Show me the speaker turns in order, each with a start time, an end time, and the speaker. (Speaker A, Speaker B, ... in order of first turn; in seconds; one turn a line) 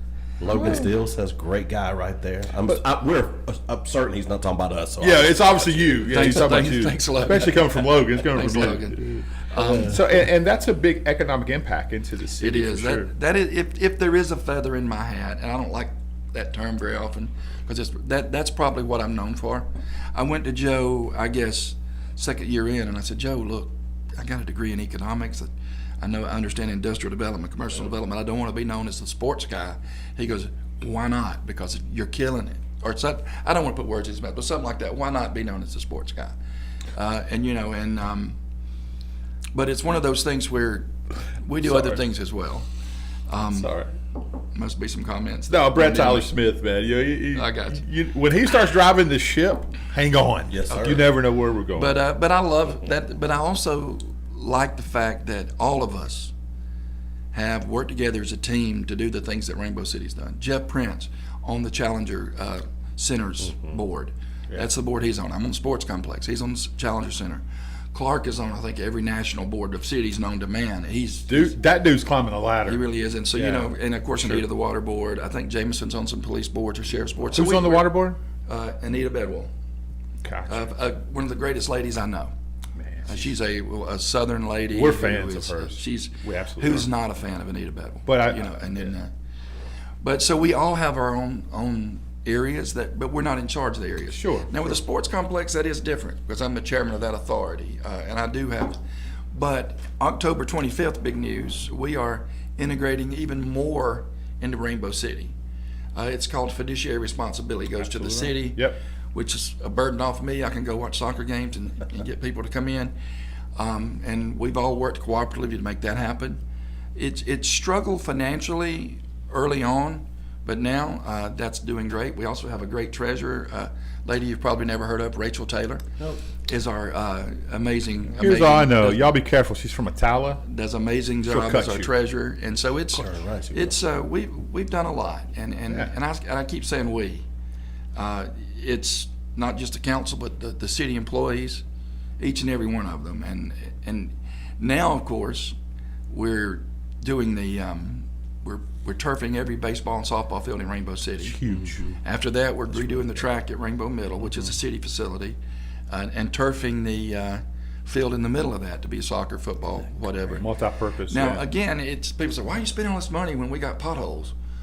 Speaker A: 0.4-6.3
Speaker B: 5.0-13.1
Speaker C: 6.1-10.0
Speaker C: 12.4-36.4
Speaker C: 36.9-38.4
Speaker C: 39.5-42.6
Speaker B: 41.6-42.0
Speaker C: 43.3-43.7
Speaker B: 43.5-43.9
Speaker C: 44.5-46.3
Speaker B: 45.5-52.0
Speaker C: 47.3-47.8
Speaker A: 50.5-51.0
Speaker C: 51.7-56.3
Speaker C: 57.3-67.4
Speaker C: 67.9-71.6
Speaker B: 71.3-72.8
Speaker C: 72.7-79.5
Speaker B: 73.3-74.4
Speaker B: 77.3-78.2
Speaker B: 80.2-80.7
Speaker C: 80.5-82.3
Speaker B: 82.8-83.3
Speaker C: 83.0-89.1
Speaker B: 84.7-86.9
Speaker B: 88.1-88.9
Speaker C: 90.0-98.8
Speaker B: 94.1-94.8
Speaker C: 99.3-105.3
Speaker C: 105.9-112.9
Speaker B: 107.8-108.8
Speaker C: 113.5-116.4
Speaker C: 117.0-125.8
Speaker C: 126.4-129.1
Speaker B: 128.2-130.4
Speaker C: 130.4-137.2
Speaker B: 131.2-131.9
Speaker A: 132.9-133.8
Speaker C: 137.9-141.6
Speaker C: 142.2-145.5
Speaker C: 146.1-155.3
Speaker B: 151.2-151.8
Speaker A: 151.5-151.8
Speaker C: 155.9-160.5
Speaker B: 160.3-161.4
Speaker C: 161.1-164.3